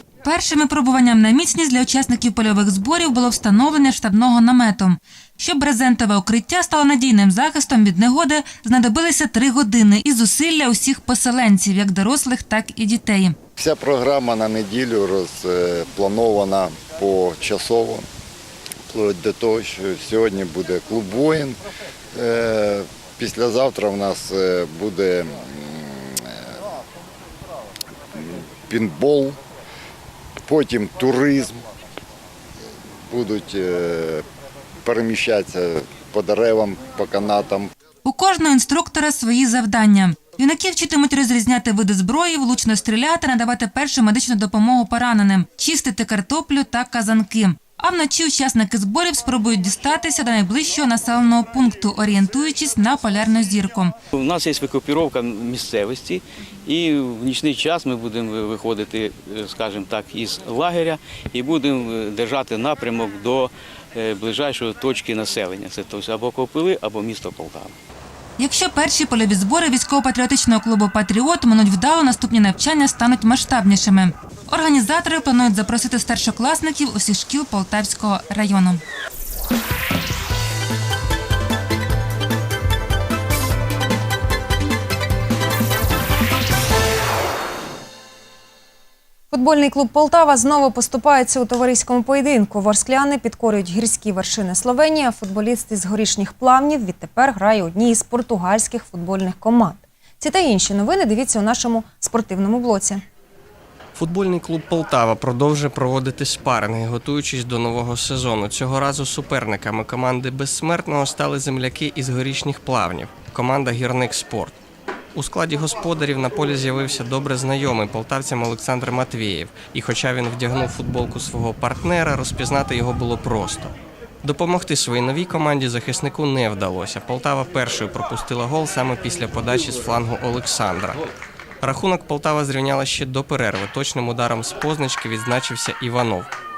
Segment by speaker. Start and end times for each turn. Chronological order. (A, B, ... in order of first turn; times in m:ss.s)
0:00.2-0:13.4 A
0:13.6-0:18.0 B
0:18.9-0:21.6 B
0:22.2-0:26.4 B
0:28.2-0:29.4 B
0:30.5-0:31.6 B
0:33.1-0:34.2 B
0:34.8-0:37.7 B
0:38.0-0:53.9 A
0:54.2-0:56.2 C
0:56.7-1:07.7 C
1:08.4-1:18.8 A
1:29.3-1:43.0 D
1:44.0-1:54.6 E
1:55.2-2:11.0 E
2:11.6-2:16.3 E